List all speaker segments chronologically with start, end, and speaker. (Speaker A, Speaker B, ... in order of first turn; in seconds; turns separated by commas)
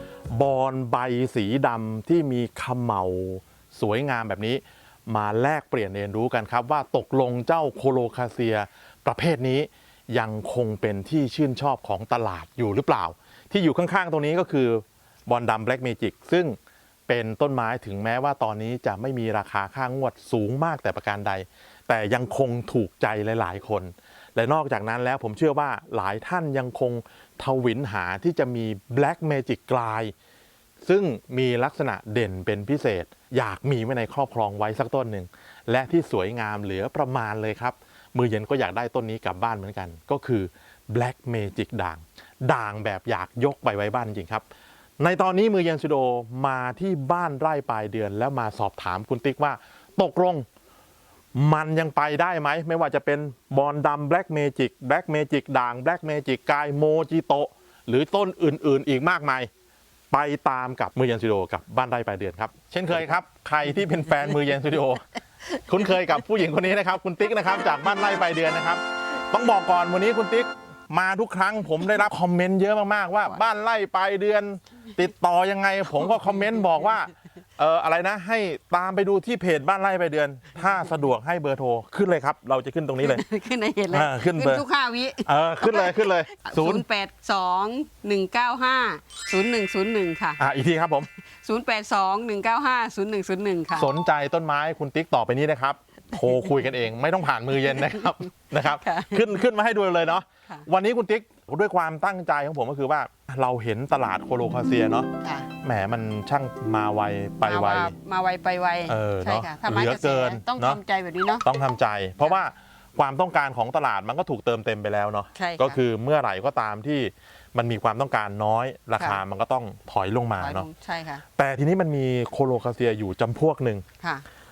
Speaker A: 0.3-16.6, Speaker A: 17.1-30.1, Speaker A: 30.8-44.4, Speaker A: 45.0-50.5, Speaker A: 51.3-59.5, Speaker A: 60.1-83.2, Speaker B: 83.0-90.4, Speaker A: 83.9-84.6, Speaker A: 85.2-86.8, Speaker A: 90.4-91.1, Speaker B: 91.4-93.9, Speaker A: 93.7-105.1, Speaker B: 97.6-99.3, Speaker B: 105.2-105.5, Speaker A: 105.6-107.9, Speaker B: 107.4-111.5, Speaker A: 108.9-110.8, Speaker A: 111.4-120.7, Speaker B: 115.3-115.8, Speaker B: 120.4-121.2, Speaker A: 121.4-123.8